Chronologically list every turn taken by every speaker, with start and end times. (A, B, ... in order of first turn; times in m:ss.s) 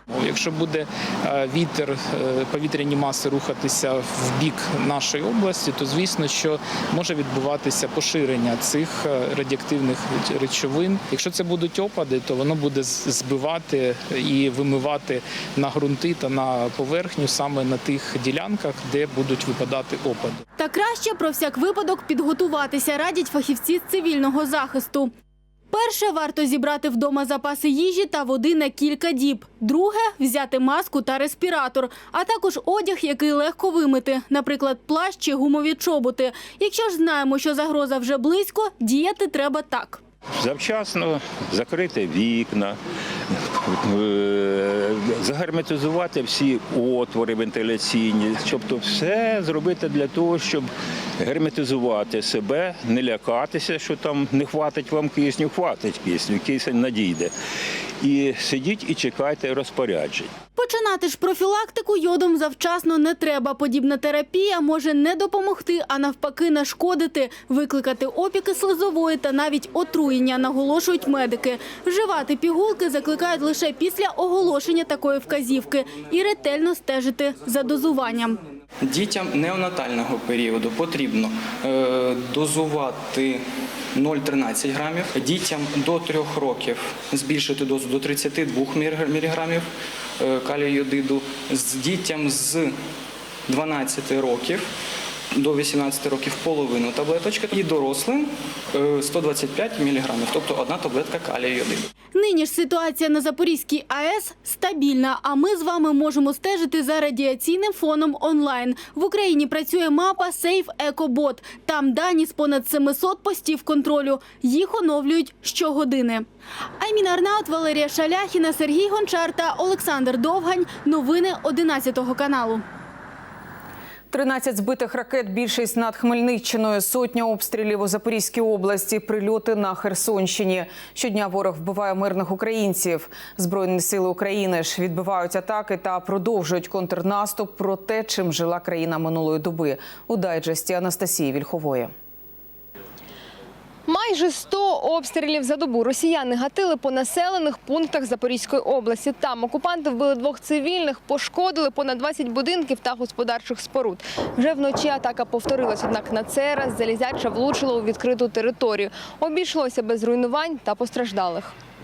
0:00.1-0:20.4 A
0:20.6-0:25.1 B
0:25.7-0:40.0 B
0:40.4-0:42.8 C
0:43.6-0:57.3 C
0:58.0-1:00.3 C
1:00.6-1:18.4 B
1:18.8-1:23.4 D
1:23.9-1:29.6 D
1:30.2-1:32.7 D
1:33.5-1:34.6 D
1:35.4-1:41.9 D
1:42.1-1:56.2 B
1:56.8-2:02.6 B
2:04.1-2:21.9 E
2:23.9-2:41.5 F